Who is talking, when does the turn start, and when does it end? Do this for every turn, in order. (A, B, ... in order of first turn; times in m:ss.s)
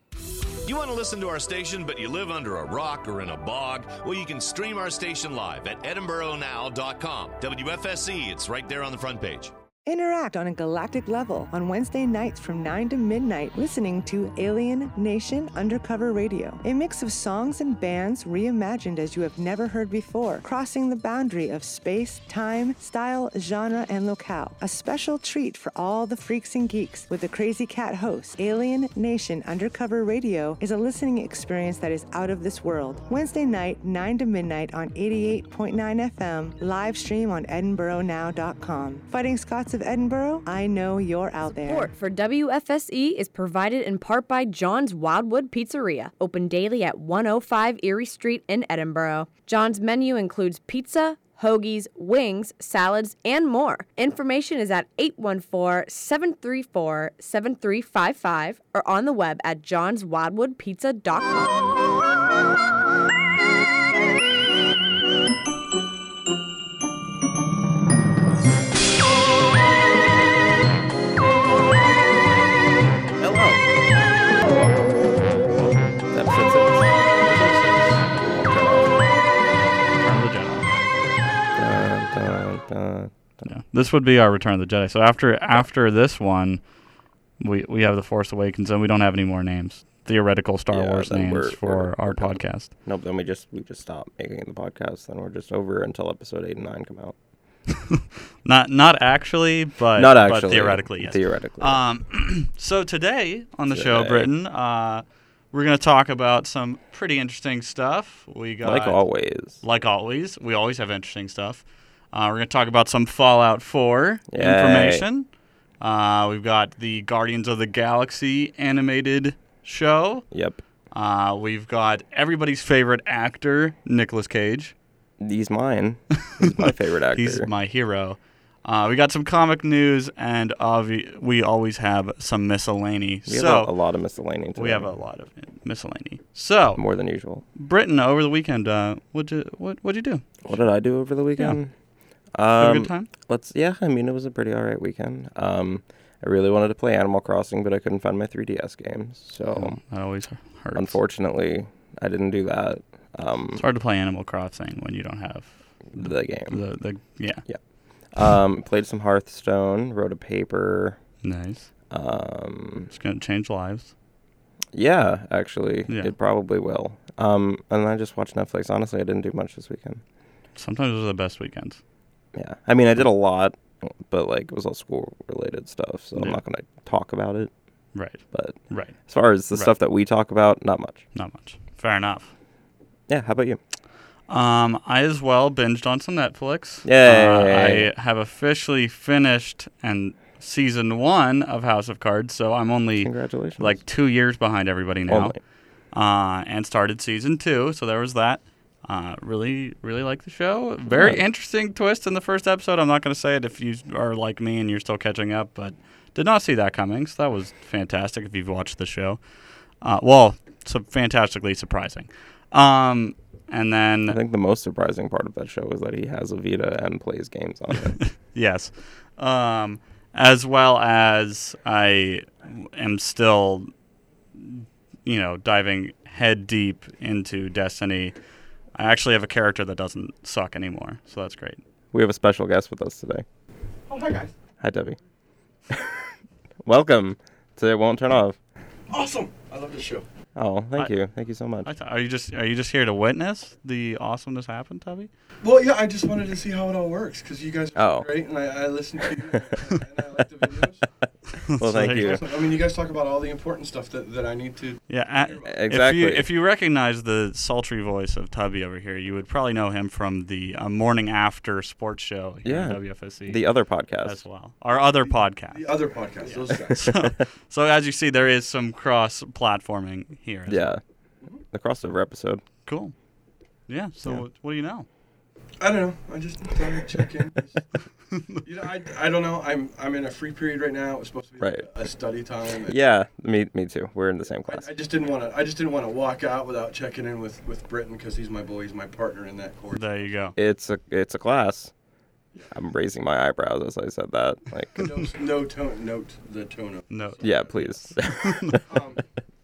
0:00.6-0:09.5 A
0:09.8-0:41.9 B
0:41.6-1:01.6 C
1:13.2-1:13.6 D
1:16.1-1:16.9 D
1:17.2-1:18.0 E
1:18.1-1:18.9 D
1:20.0-1:20.7 E
1:21.6-1:23.5 D
1:23.4-1:26.6 E
1:27.4-1:32.7 E
1:30.7-1:37.2 D
1:38.4-1:49.0 E
1:39.9-1:41.8 D
1:43.7-1:44.3 D
1:48.6-1:49.6 D
1:49.6-1:55.3 E
1:54.3-1:55.1 D
1:55.8-2:00.2 E
2:00.3-2:00.6 D
2:00.9-2:04.7 E
2:05.2-2:07.5 D
2:06.3-2:13.7 E
2:13.3-2:14.9 D
2:14.6-2:16.8 E
2:16.8-2:17.4 D
2:17.5-2:20.7 E
2:20.4-2:21.7 D
2:22.3-2:29.8 D
2:22.6-2:23.1 E
2:29.5-2:31.0 E
2:30.7-2:33.6 D
2:33.6-2:37.4 E
2:35.9-2:36.6 D
2:37.4-2:41.0 D
2:41.2-2:41.7 E
2:41.9-2:42.9 D
2:42.9-2:43.9 E
2:44.7-2:50.0 D
2:45.9-2:46.1 E
2:50.6-2:51.8 E
2:52.3-2:57.5 D
2:56.1-2:56.4 E
2:57.9-2:58.9 E
2:58.3-3:01.0 D
3:01.1-3:02.3 E
3:03.1-3:03.6 D
3:04.3-3:15.4 E
3:06.8-3:07.9 D
3:13.0-3:13.8 D
3:15.1-3:15.4 D
3:15.9-3:29.2 E
3:20.9-3:21.2 D
3:29.8-3:34.2 E
3:34.1-3:38.0 D
3:38.0-3:43.7 E
3:44.3-3:48.1 E
3:48.7-3:51.6 E
3:51.9-3:53.2 D
3:53.9-3:54.3 F
3:54.6-3:55.0 D
3:56.6-3:58.4 D
3:58.9-4:00.0 F
4:00.3-4:01.7 D
4:01.6-4:05.1 E
4:05.4-4:10.9 F
4:07.7-4:08.1 D
4:11.5-4:12.2 E
4:11.5-4:12.2 D
4:11.8-4:15.5 F
4:14.9-4:23.4 E
4:15.4-4:16.3 D
4:22.4-4:24.2 D
4:24.0-4:25.6 E
4:25.5-4:27.0 F
4:26.3-4:30.7 E
4:26.8-4:27.1 D
4:30.5-4:30.8 D
4:31.5-4:32.4 D
4:32.6-4:32.9 E
4:33.7-4:34.9 E
4:35.6-4:37.6 F
4:38.1-4:38.4 E
4:38.4-4:42.8 F
4:41.4-4:41.6 D
4:42.6-4:44.7 D
4:44.4-4:50.0 F
4:49.7-4:50.3 E
4:50.4-4:51.7 D
4:52.5-4:54.8 D
4:54.7-4:57.8 F
4:56.9-4:58.6 E
4:57.2-4:58.6 D
4:58.5-4:59.0 F